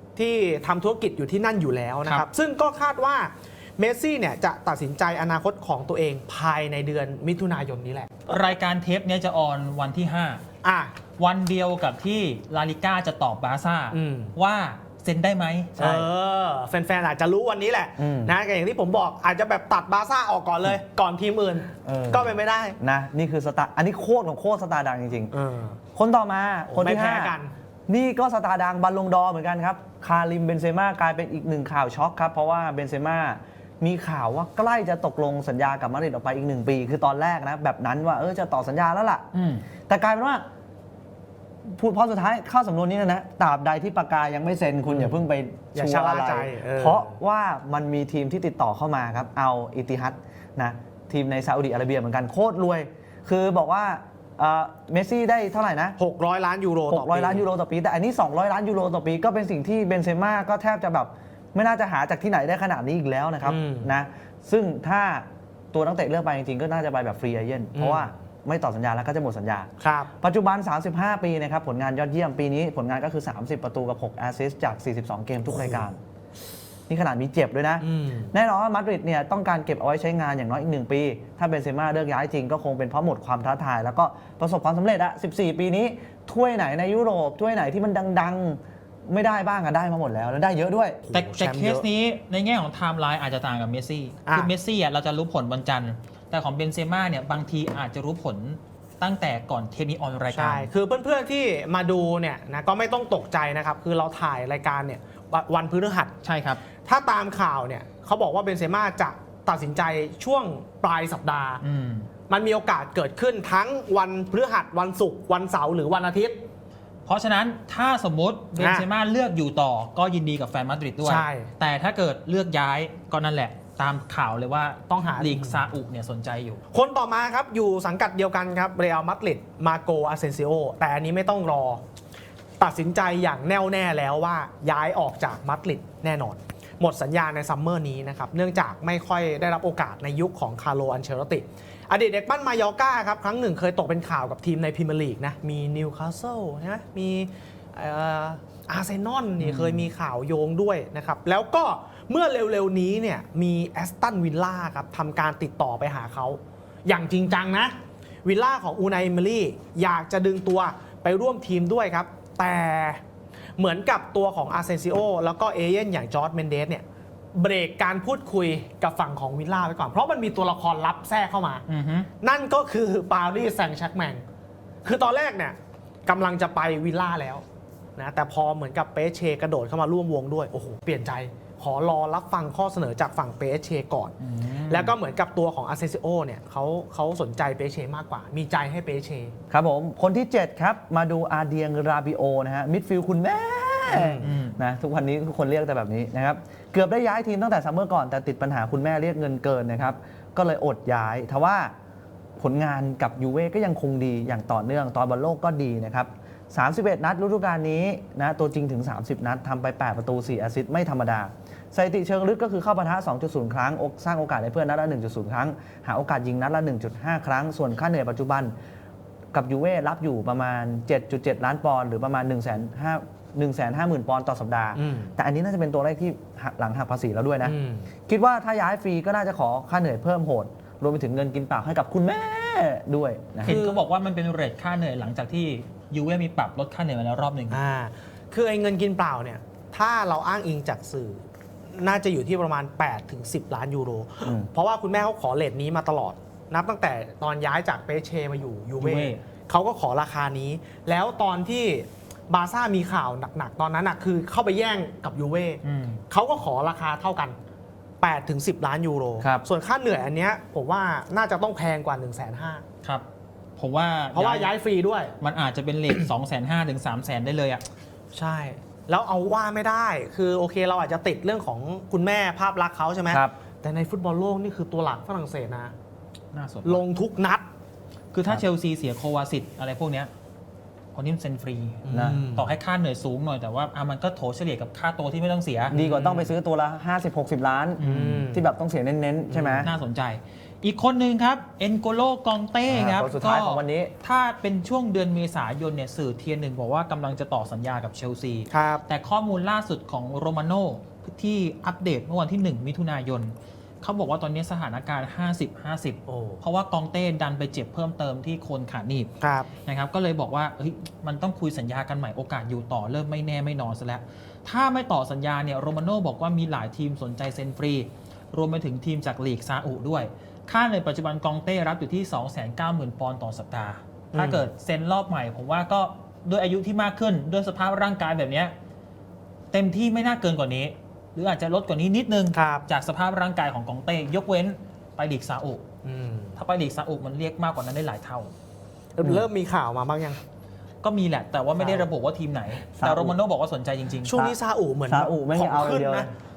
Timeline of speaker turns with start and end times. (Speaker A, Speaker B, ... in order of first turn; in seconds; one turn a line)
Speaker A: 0.1-8.1
Speaker B: 8.3-10.4
Speaker A: 10.6-11.0
Speaker B: 11.2-16.1
Speaker A: 13.9-14.3
Speaker A: 15.8-22.8
Speaker C: 18.0-18.3
Speaker C: 21.8-25.3
Speaker A: 25.3-25.8
Speaker C: 25.9-27.3
Speaker A: 26.7-27.5
Speaker C: 27.9-39.2
Speaker B: 39.3-39.6
Speaker C: 39.9-40.4
Speaker C: 41.6-56.0
Speaker A: 44.9-45.2
Speaker A: 45.7-47.1
Speaker A: 56.0-57.5
Speaker C: 56.9-69.7
Speaker A: 63.4-64.0
Speaker A: 67.7-68.1
Speaker A: 69.8-70.1
Speaker C: 70.2-76.0
Speaker A: 75.5-75.9
Speaker C: 76.9-91.0
Speaker A: 77.8-78.3
Speaker A: 91.0-91.8
Speaker B: 91.1-100.7
Speaker A: 94.2-94.5
Speaker A: 100.3-106.1
Speaker B: 106.2-106.6
Speaker A: 106.8-111.6
Speaker B: 111.6-112.1
Speaker A: 112.3-116.5
Speaker B: 117.0-126.6
Speaker A: 118.6-118.9
Speaker A: 121.0-121.5
Speaker A: 124.9-125.7
Speaker A: 126.7-131.8
Speaker A: 132.6-157.7
Speaker B: 149.4-149.9
Speaker A: 158.2-163.0
Speaker A: 163.6-166.8
Speaker A: 167.3-171.6
Speaker B: 171.7-172.1
Speaker A: 172.2-174.2
Speaker A: 174.8-177.4
Speaker A: 178.0-184.1
Speaker B: 184.2-184.9
Speaker A: 184.7-189.3
Speaker C: 189.5-201.7
Speaker A: 193.9-194.3
Speaker B: 194.2-194.6
Speaker C: 202.4-218.5
Speaker C: 219.3-227.6
Speaker A: 224.7-225.2
Speaker A: 227.4-227.9
Speaker C: 228.1-233.7
Speaker B: 233.4-237.6
Speaker A: 237.5-257.4
Speaker C: 244.2-244.5
Speaker B: 248.8-249.2
Speaker B: 255.6-256.0
Speaker A: 258.0-262.6
Speaker C: 259.2-259.4
Speaker B: 263.6-264.5
Speaker A: 264.1-265.1
Speaker B: 265.2-267.6
Speaker A: 268.1-275.7
Speaker C: 273.1-273.3
Speaker B: 276.3-276.8
Speaker A: 276.6-277.4
Speaker B: 278.1-280.1
Speaker B: 280.9-285.8
Speaker A: 281.9-282.5
Speaker C: 281.9-282.2
Speaker A: 285.7-286.3
Speaker C: 285.7-289.7
Speaker B: 287.8-288.3
Speaker A: 287.8-288.4
Speaker A: 289.3-289.7
Speaker B: 289.6-309.1
Speaker C: 292.7-293.9
Speaker A: 298.5-298.8
Speaker A: 306.1-306.4
Speaker A: 309.2-309.5
Speaker B: 309.6-328.5
Speaker A: 324.1-324.4
Speaker B: 329.5-335.6
Speaker A: 332.3-332.6
Speaker A: 335.8-336.4
Speaker B: 336.4-338.3
Speaker A: 338.9-340.2
Speaker B: 340.8-344.1
Speaker A: 341.6-341.9
Speaker C: 342.8-343.2
Speaker A: 344.0-346.1
Speaker C: 344.9-346.1